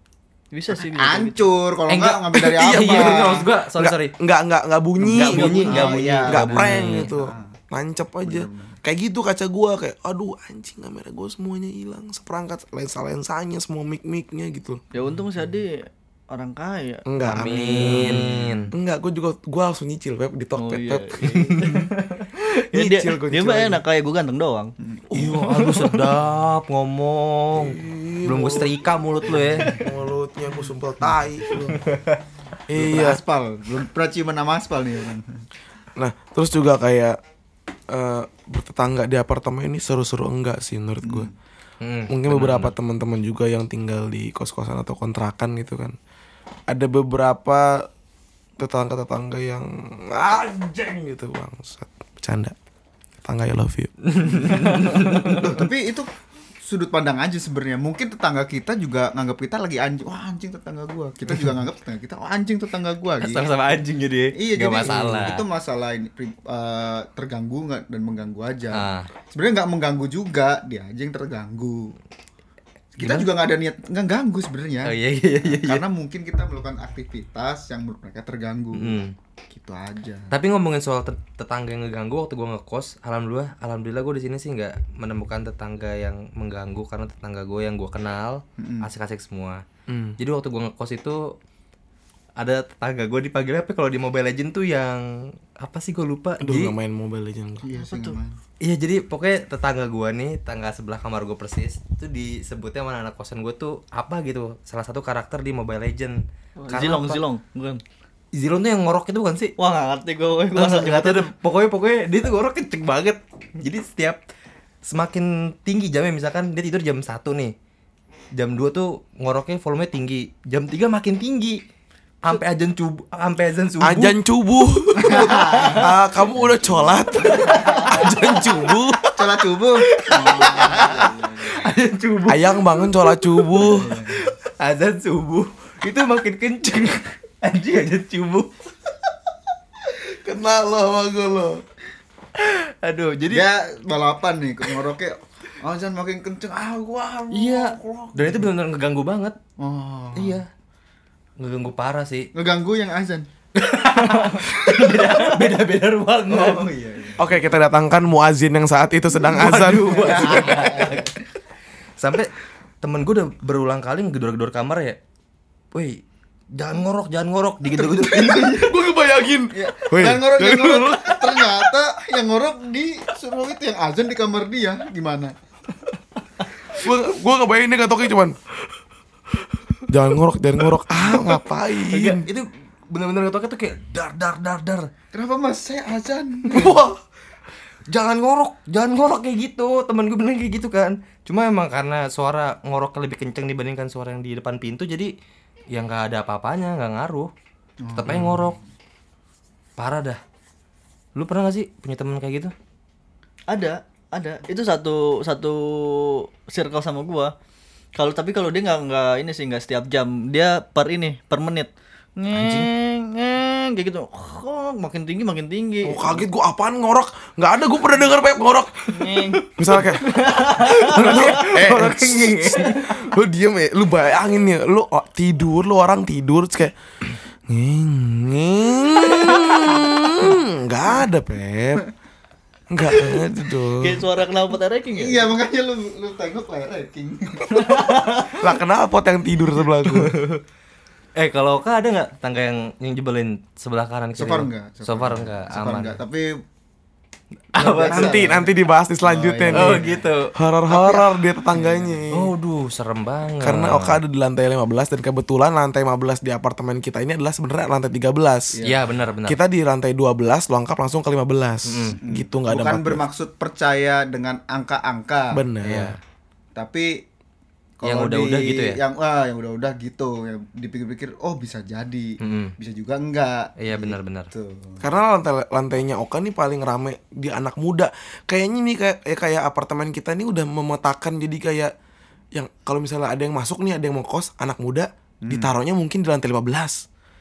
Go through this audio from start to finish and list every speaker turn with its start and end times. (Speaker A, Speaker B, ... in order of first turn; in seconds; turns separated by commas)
Speaker A: 0.5-1.5, Speaker B: 0.8-3.5, Speaker C: 1.9-4.1, Speaker D: 2.3-14.8, Speaker B: 5.0-7.5, Speaker C: 5.1-7.1, Speaker B: 8.2-8.8, Speaker A: 14.9-18.2, Speaker D: 17.1-21.2, Speaker C: 17.2-18.7, Speaker A: 20.6-24.7, Speaker C: 21.4-21.9, Speaker D: 22.7-23.8, Speaker D: 25.1-26.0, Speaker C: 25.1-29.8, Speaker A: 25.5-25.9, Speaker D: 27.5-28.7, Speaker B: 29.3-29.8, Speaker D: 29.6-31.8, Speaker C: 31.8-32.2, Speaker D: 32.7-33.2, Speaker B: 32.7-35.4, Speaker D: 36.0-37.2, Speaker D: 37.9-41.3, Speaker B: 41.0-41.3, Speaker C: 41.8-42.7, Speaker D: 42.1-46.0, Speaker D: 46.7-47.9, Speaker D: 48.6-52.5, Speaker D: 53.2-53.9, Speaker C: 54.0-55.6, Speaker B: 54.3-56.1, Speaker B: 56.6-63.5, Speaker C: 63.2-65.4, Speaker B: 64.3-72.0, Speaker D: 64.9-65.3, Speaker C: 68.7-69.1, Speaker B: 73.0-80.3, Speaker C: 73.0-73.3, Speaker C: 74.8-75.8, Speaker C: 78.7-79.1, Speaker C: 80.3-89.6, Speaker B: 88.6-88.9, Speaker D: 89.9-90.2, Speaker C: 90.2-91.3, Speaker C: 92.4-96.7, Speaker D: 96.4-97.6, Speaker B: 97.6-98.4, Speaker A: 97.8-98.2, Speaker C: 98.6-107.2, Speaker A: 106.6-107.8, Speaker C: 108.3-109.5, Speaker A: 109.6-111.3, Speaker C: 110.5-114.2, Speaker C: 114.8-117.5, Speaker C: 118.3-121.6, Speaker C: 122.2-124.2, Speaker D: 123.8-129.2, Speaker B: 125.0-128.0, Speaker C: 125.4-125.8, Speaker C: 127.2-129.0, Speaker B: 129.2-131.5, Speaker C: 129.8-138.5, Speaker A: 130.1-131.1, Speaker D: 132.3-133.9, Speaker B: 133.6-134.2, Speaker D: 140.0-141.6, Speaker C: 142.4-143.5, Speaker B: 143.3-148.5, Speaker C: 147.3-149.3, Speaker B: 149.6-150.4, Speaker C: 150.1-150.5, Speaker C: 151.4-152.3, Speaker B: 152.3-153.3, Speaker C: 153.5-156.7, Speaker B: 154.7-155.0, Speaker B: 156.3-157.4, Speaker D: 157.2-160.6, Speaker C: 159.2-161.2, Speaker B: 159.9-161.1, Speaker C: 162.0-165.0, Speaker C: 165.7-166.0, Speaker C: 166.5-168.7, Speaker B: 167.6-168.8, Speaker D: 168.5-171.6, Speaker B: 169.5-175.3, Speaker D: 176.7-178.3, Speaker D: 179.9-182.3, Speaker C: 180.9-181.3, Speaker C: 181.9-184.9, Speaker B: 185.1-186.8, Speaker D: 186.5-187.0, Speaker C: 187.9-195.1, Speaker C: 195.7-197.3, Speaker B: 197.8-198.6, Speaker C: 197.9-198.6, Speaker C: 199.8-200.2, Speaker C: 201.1-202.5, Speaker A: 203.5-207.3, Speaker A: 207.9-216.2, Speaker C: 212.3-212.7, Speaker D: 215.8-218.8, Speaker A: 218.9-219.5, Speaker D: 219.5-220.1, Speaker A: 220.0-221.6, Speaker C: 220.2-222.9, Speaker D: 220.9-226.7, Speaker D: 227.5-231.8, Speaker D: 232.7-234.1, Speaker A: 233.7-235.3, Speaker B: 234.9-238.2, Speaker A: 237.5-238.4, Speaker D: 238.4-240.1, Speaker C: 239.8-240.4, Speaker C: 241.2-246.0, Speaker B: 244.2-246.4, Speaker C: 247.5-248.3, Speaker B: 247.6-248.5, Speaker D: 247.8-249.8, Speaker B: 249.0-250.1, Speaker C: 249.5-250.3, Speaker D: 250.3-252.3, Speaker B: 250.7-252.0, Speaker C: 252.1-254.0, Speaker D: 253.4-258.6, Speaker B: 258.5-258.9, Speaker C: 258.6-259.4, Speaker D: 259.2-263.0, Speaker C: 261.6-262.0, Speaker B: 262.0-265.4, Speaker D: 265.3-265.9, Speaker C: 265.6-266.0, Speaker B: 266.5-267.0, Speaker B: 267.8-274.9, Speaker C: 267.8-268.8, Speaker C: 272.2-272.5, Speaker C: 273.6-274.3, Speaker D: 274.8-281.7, Speaker D: 282.3-286.9, Speaker B: 285.2-285.5